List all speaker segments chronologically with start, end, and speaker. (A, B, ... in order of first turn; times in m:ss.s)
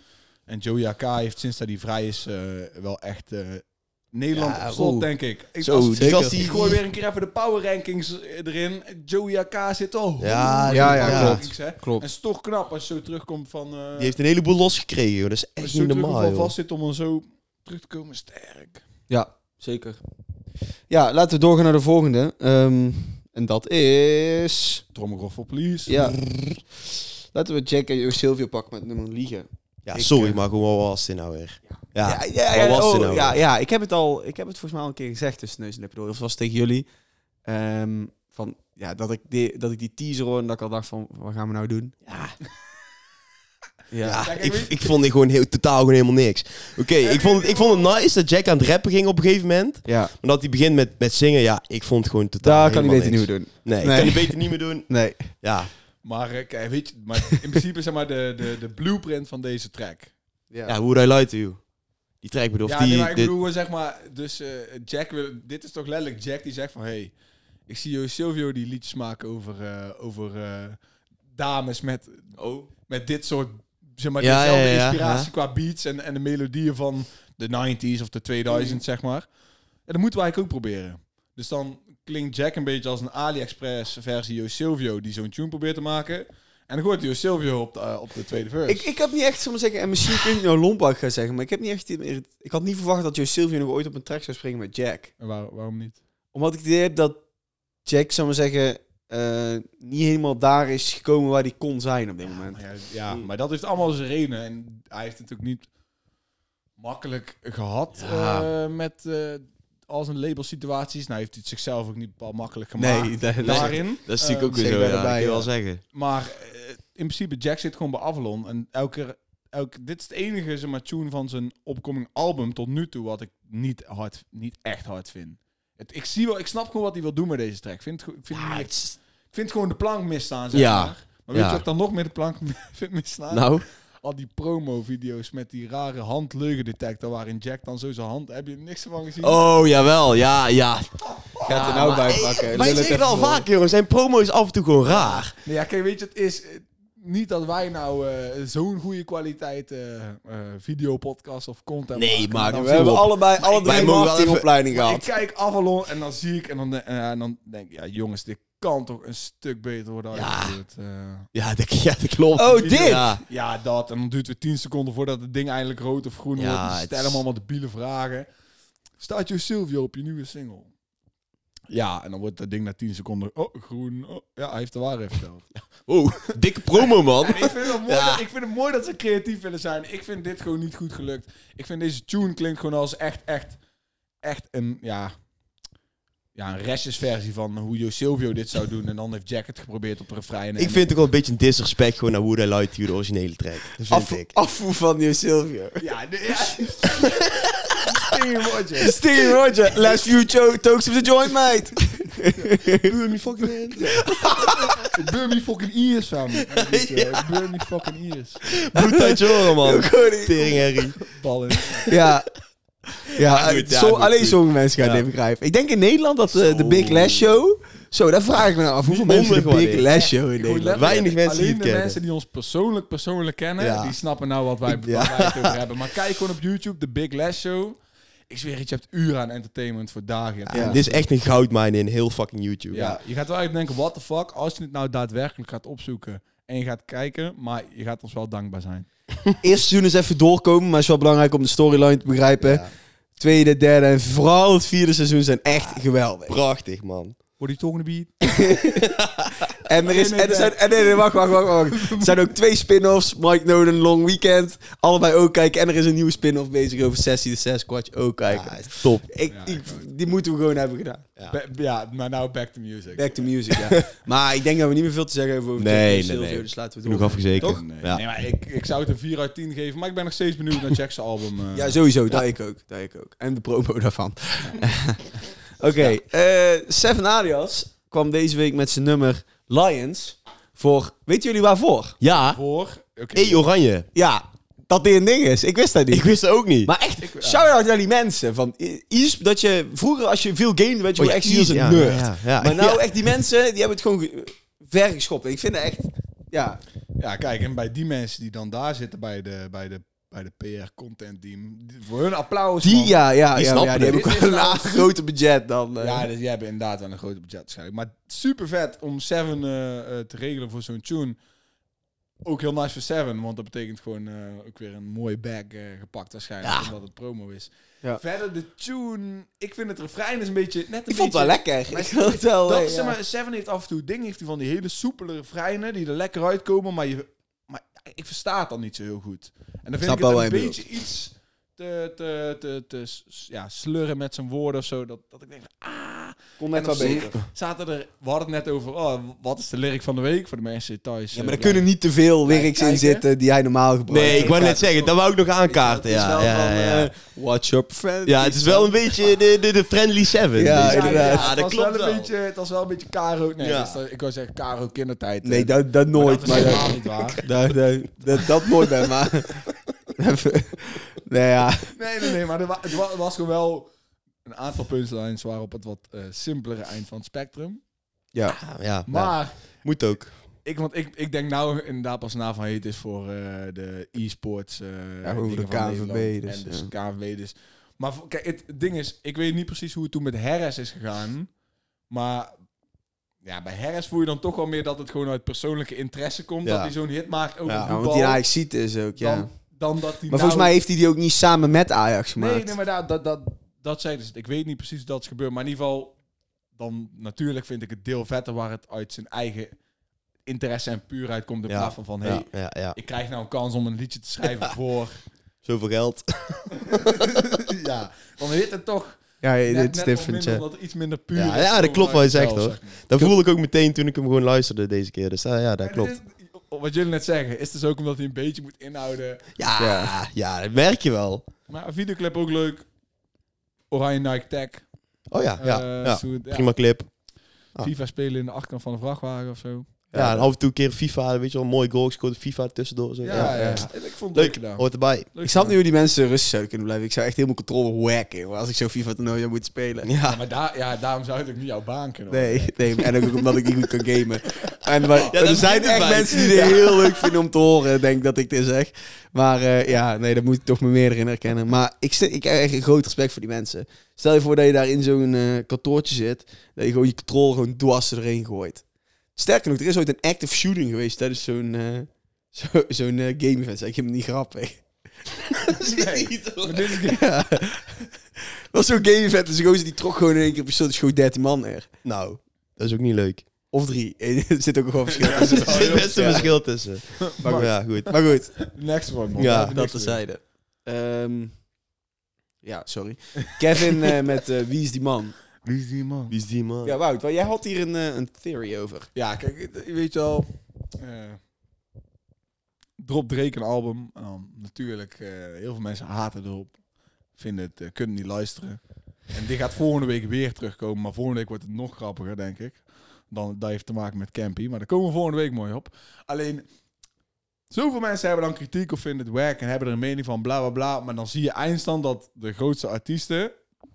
0:00.5-0:14.1 A
0:04.3-0:05.1 B
0:05.6-0:06.8 C
0:05.6-0:06.5 B
0:10.2-0:11.4 C
0:10.7-0:12.0 B
0:14.0-0:16.5 C
0:15.6-0:18.8 A
0:19.1-0:20.0 B
0:20.9-0:24.8 B
0:24.9-0:26.1 A
0:25.9-0:26.6 B
0:27.3-0:30.4 B
0:29.8-0:33.4 C
0:32.0-0:36.9 B
0:37.4-0:42.0 B
0:42.1-0:42.3 C
0:43.9-0:44.3 B
0:44.0-0:55.7 C
0:44.2-0:44.9 A
0:47.0-0:47.9 A
0:49.9-0:50.1 B
0:52.4-0:55.3 B
0:56.0-1:00.1 A
1:00.5-1:00.8 B
1:00.6-1:01.6 C
1:02.2-1:03.3 C
1:02.6-1:07.1 A
1:07.7-1:10.8 A
1:11.4-1:19.3 A
1:12.4-1:12.7 C
1:14.2-1:15.3 C
1:19.9-1:28.9 A
1:28.7-1:35.1 B
1:35.2-1:36.0 A
1:36.3-1:37.2 B
1:37.8-1:42.6 B
1:42.3-1:45.7 A
1:46.8-1:54.8 A
1:48.0-1:48.5 C
1:52.8-1:53.9 B
1:53.4-1:55.8 C
1:54.5-1:55.5 B
1:55.9-2:19.4 A
2:08.3-2:08.9 C
2:10.5-2:11.6 C
2:13.3-2:13.6 C
2:19.2-2:25.3 C
2:21.4-2:22.2 A
2:21.4-2:23.4 B
2:24.9-2:34.0 A
2:32.0-2:34.5 C
2:32.4-2:35.1 B
2:34.7-2:41.3 A
2:40.1-2:40.6 C
2:41.3-2:43.2 C
2:42.4-2:43.1 B
2:42.6-2:48.3 A
2:46.4-2:47.2 C
2:49.0-2:50.7 A
2:51.7-2:55.5 A
2:55.8-2:58.2 C
2:56.7-3:03.6 A
3:04.2-3:05.1 A
3:06.4-3:10.9 A
3:10.6-3:14.3 C
3:13.9-3:15.8 B
3:15.8-3:19.0 A
3:18.8-3:22.9 B
3:22.7-3:24.7 C
3:23.8-3:24.9 B
3:24.8-3:28.6 A
3:26.6-3:27.2 C
3:28.5-3:31.0 C
3:28.7-3:30.6 B
3:31.0-3:31.9 A
3:31.9-3:32.3 B
3:33.1-3:40.9 B
3:33.2-3:35.0 C
3:36.3-3:37.3 C
3:38.9-3:39.9 C
3:39.9-3:47.8 A
3:40.8-3:42.0 C
3:43.6-3:44.0 C
3:44.6-3:45.6 C
3:48.3-3:51.1 A
3:50.5-3:52.9 C
3:50.5-3:50.8 B
3:52.7-3:58.9 A
3:59.4-4:06.4 B
4:02.4-4:02.7 C
4:06.3-4:07.2 C
4:07.4-4:08.6 A
4:08.2-4:08.9 B
4:08.8-4:09.5 C
4:09.6-4:21.0 B
4:09.8-4:12.3 A
4:18.3-4:19.0 C
4:19.3-4:19.9 A
4:21.3-4:23.3 A
4:22.9-4:27.6 B
4:25.6-4:28.0 C
4:27.4-4:31.8 A
4:31.5-4:42.0 B
4:42.0-4:42.4 C
4:42.3-4:43.4 A
4:43.1-4:43.9 C
4:43.9-4:46.1 B
4:45.9-4:46.7 C
4:46.6-4:56.6 B
4:47.0-4:47.5 A
4:51.0-4:52.8 C
4:57.0-5:03.0 A
5:02.6-5:06.1 B
5:03.3-5:04.1 C
5:03.6-5:04.9 A
5:05.8-5:11.2 A
5:12.2-5:41.7 A
5:16.4-5:16.7 C
5:20.9-5:23.0 B
5:29.8-5:30.6 B
5:36.4-5:37.2 B
5:36.8-5:37.2 C
5:41.1-5:44.7 B
5:42.2-5:43.0 A
5:43.9-5:46.9 C
5:44.0-5:44.9 A
5:45.5-5:49.0 B
5:48.1-5:52.1 C
5:50.4-5:51.3 B
5:50.4-5:57.3 A
5:53.4-5:53.8 C
5:55.2-5:59.4 B
6:00.0-6:01.7 B
6:01.7-6:03.7 A
6:04.2-6:07.6 A
6:08.1-6:08.4 B
6:08.4-6:10.1 C
6:08.9-6:09.6 A
6:10.4-6:21.3 A
6:15.0-6:16.7 B
6:21.9-6:22.3 A
6:23.2-6:28.2 A
6:26.4-6:26.7 C
6:27.4-6:27.7 C
6:27.6-6:29.3 B
6:29.0-6:30.6 A
6:30.1-6:32.6 B
6:32.2-6:36.0 A
6:36.6-6:39.6 A
6:40.3-6:45.0 A
6:41.5-6:42.8 C
6:45.4-6:47.1 C
6:46.6-6:52.8 A
6:49.2-6:50.4 B
6:51.1-6:55.9 C
6:55.6-6:59.3 A
6:59.4-7:01.3 C
6:59.6-6:59.9 B
7:01.5-7:02.6 A
7:03.7-7:04.6 A
7:05.1-7:06.9 C
7:05.4-7:06.5 A
7:07.6-7:10.3 A
7:09.9-7:15.1 C
7:13.0-7:15.6 A
7:13.1-7:13.7 B
7:15.2-7:19.9 B
7:19.9-7:20.1 C
7:20.1-7:22.8 A
7:22.1-7:38.6 B
7:24.9-7:25.5 A
7:25.0-7:27.1 C
7:39.2-7:44.6 B
7:45.3-7:46.0 B
7:45.6-7:47.1 A
7:45.9-7:46.6 C
7:46.7-7:47.9 B
7:48.5-7:51.7 B
7:51.8-7:53.3 C
7:53.5-7:56.4 B
7:54.9-7:56.4 A
7:55.4-7:57.9 C
7:57.1-8:00.0 A
7:57.2-7:58.4 B
7:59.2-7:59.6 C
7:59.5-8:01.4 B
8:02.4-8:05.2 B
8:05.4-8:06.1 A
8:06.1-8:06.7 C
8:06.6-8:08.9 B
8:08.9-8:11.2 A
8:12.8-8:16.6 A
8:17.1-8:18.6 A
8:19.1-8:26.4 A
8:27.5-8:33.3 A